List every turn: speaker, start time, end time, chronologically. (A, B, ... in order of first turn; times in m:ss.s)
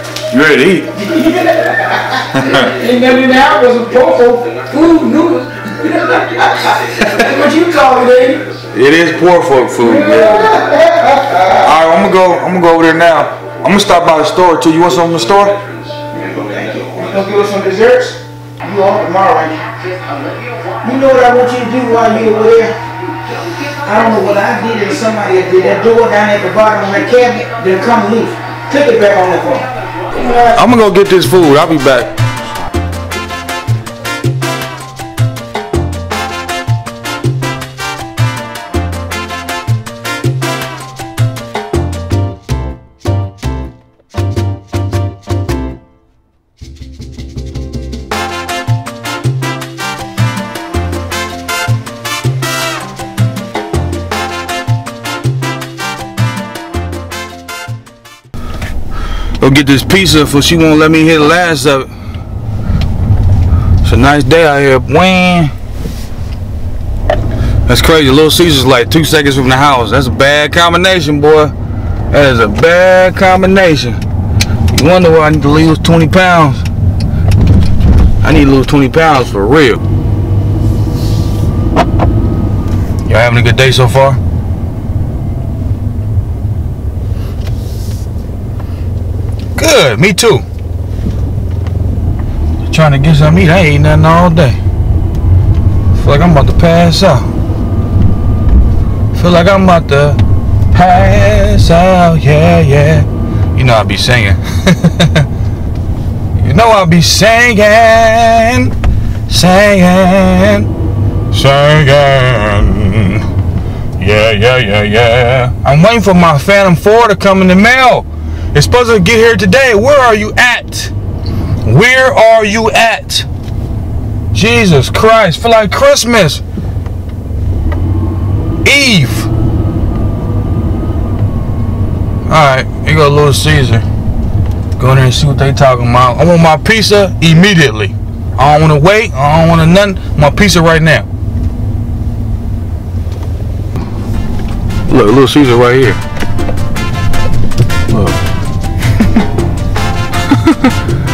0:00.3-0:00.9 A
0:01.0-0:08.4 B
0:02.4-0:02.6 A
0:08.7-0:10.7 A
0:09.8-0:11.6 B
0:11.6-0:15.6 A
0:16.2-0:19.7 B
0:20.8-0:22.7 B
0:23.8-0:30.6 B
0:30.4-0:32.1 A
0:59.4-1:01.9 A
1:03.8-1:05.5 A
1:07.7-1:11.5 A
1:12.1-1:14.0 A
1:14.7-1:16.7 A
1:18.2-1:19.8 A
1:23.0-1:24.2 A
1:29.6-1:30.4 A
1:32.6-1:34.6 A
1:35.9-1:37.3 A
1:39.1-1:40.2 A
1:40.7-1:45.3 A
1:46.4-1:48.7 A
1:49.3-1:50.7 A
1:51.3-1:53.3 A
1:54.0-2:00.9 A
2:01.6-2:03.3 A
2:04.3-2:06.4 A
2:08.6-2:09.3 A
2:12.2-2:13.8 A
2:14.8-2:21.1 A
2:24.9-2:26.0 A
2:27.9-2:28.2 A
2:30.3-2:30.7 A